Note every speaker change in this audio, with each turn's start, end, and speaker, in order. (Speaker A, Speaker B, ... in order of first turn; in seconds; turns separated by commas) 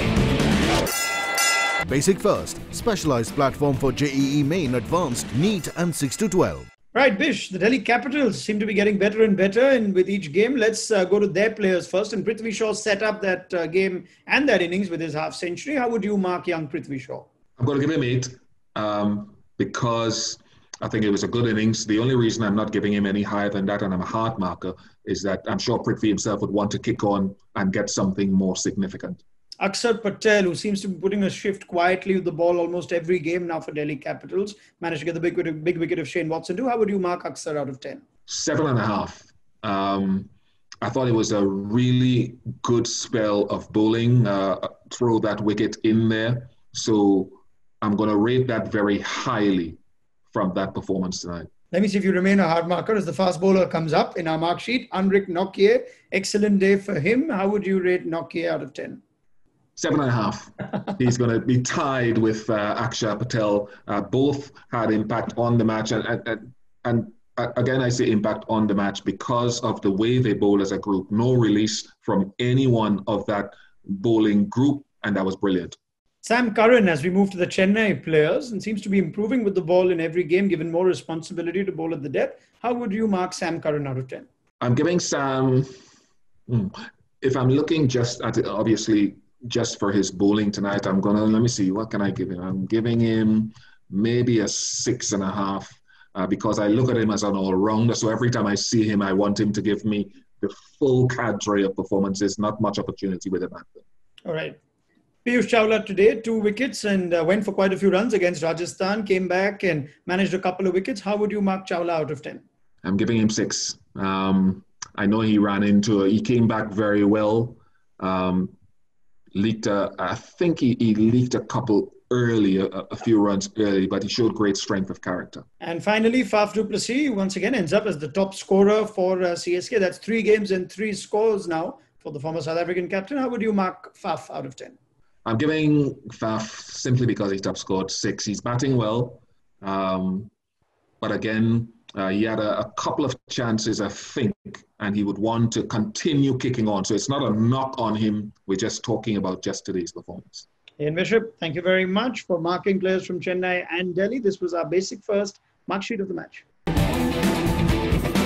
Speaker A: 1.9-6.7, Speaker B: 6.9-17.3, Speaker C: 17.6-29.2, Speaker B: 29.6-38.0, Speaker C: 38.3-40.3, Speaker C: 40.8-49.8, Speaker C: 50.3-51.5, Speaker B: 51.7-59.0, Speaker C: 59.8-75.8, Speaker B: 76.2-84.3, Speaker C: 84.6-85.7, Speaker C: 86.5-103.8, Speaker B: 104.3-104.6, Speaker B: 105.2-112.4, Speaker C: 112.8-118.5, Speaker C: 119.3-125.4, Speaker B: 125.6-134.8, Speaker C: 135.2-140.3, Speaker C: 141.0-150.5, Speaker B: 150.8-156.4